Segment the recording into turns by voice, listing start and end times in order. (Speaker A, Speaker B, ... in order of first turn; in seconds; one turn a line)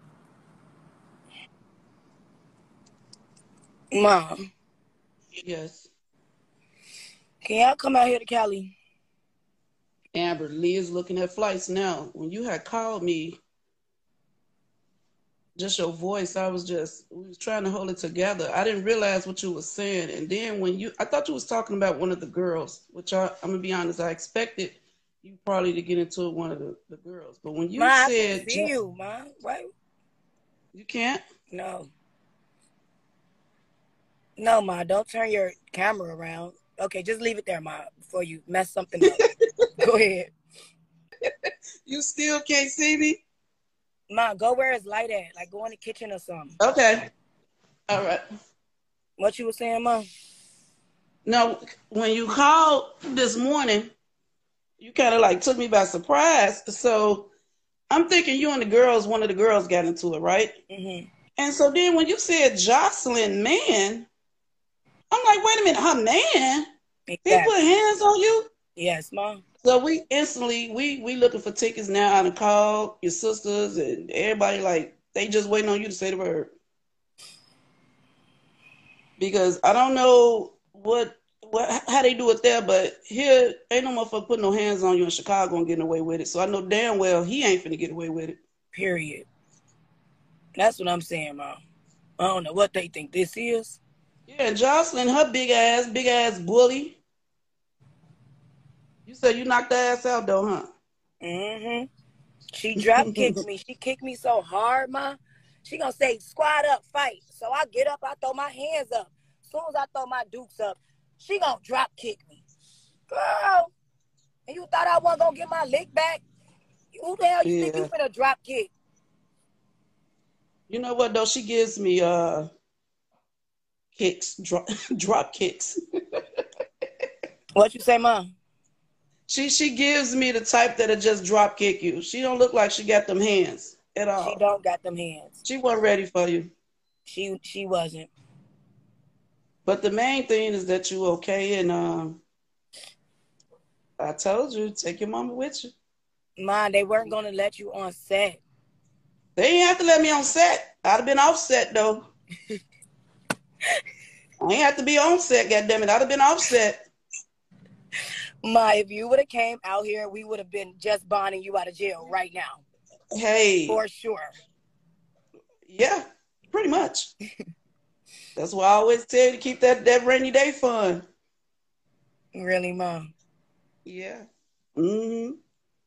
Speaker A: 3.9-4.4
Speaker B: 5.3-5.9
Speaker A: 7.4-8.8
Speaker B: 10.1-13.4
Speaker B: 15.6-28.7
Speaker A: 27.8-29.7
Speaker B: 30.7-31.2
Speaker A: 31.5-31.9
Speaker A: 34.4-40.3
Speaker B: 41.9-43.2
Speaker A: 44.1-46.6
Speaker B: 46.6-47.1
Speaker B: 47.9-48.2
Speaker A: 49.2-50.1
Speaker B: 51.3-53.9
Speaker B: 54.8-57.3
Speaker B: 57.9-60.5
Speaker A: 60.7-61.1
Speaker B: 61.4-64.1
Speaker B: 65.1-66.7
Speaker A: 67.1-67.5
Speaker B: 67.2-68.5
Speaker A: 68.8-69.4
Speaker B: 69.6-76.5
Speaker B: 79.2-88.4
Speaker A: 88.7-89.3
Speaker A: 90.6-91.6
Speaker A: 92.2-93.8
Speaker B: 94.3-97.0
Speaker B: 99.1-100.7
Speaker A: 101.2-101.9
Speaker A: 102.5-112.4
Speaker B: 102.8-103.3
Speaker A: 113.1-113.7
Speaker A: 114.5-116.2
Speaker A: 116.9-118.7
Speaker B: 117.4-117.9
Speaker B: 120.7-122.5
Speaker B: 124.0-125.8
Speaker A: 127.6-128.3
Speaker B: 129.3-134.4
Speaker A: 134.2-135.4
Speaker B: 135.4-136.5
Speaker A: 137.1-138.1
Speaker B: 139.7-142.2
Speaker B: 144.0-145.7
Speaker A: 146.4-148.4
Speaker B: 149.4-152.1
Speaker B: 154.4-156.8
Speaker A: 158.4-162.6
Speaker B: 163.1-163.8
Speaker A: 163.7-164.3
Speaker B: 165.7-167.1
Speaker B: 168.4-171.0
Speaker A: 172.3-173.1
Speaker B: 173.8-175.4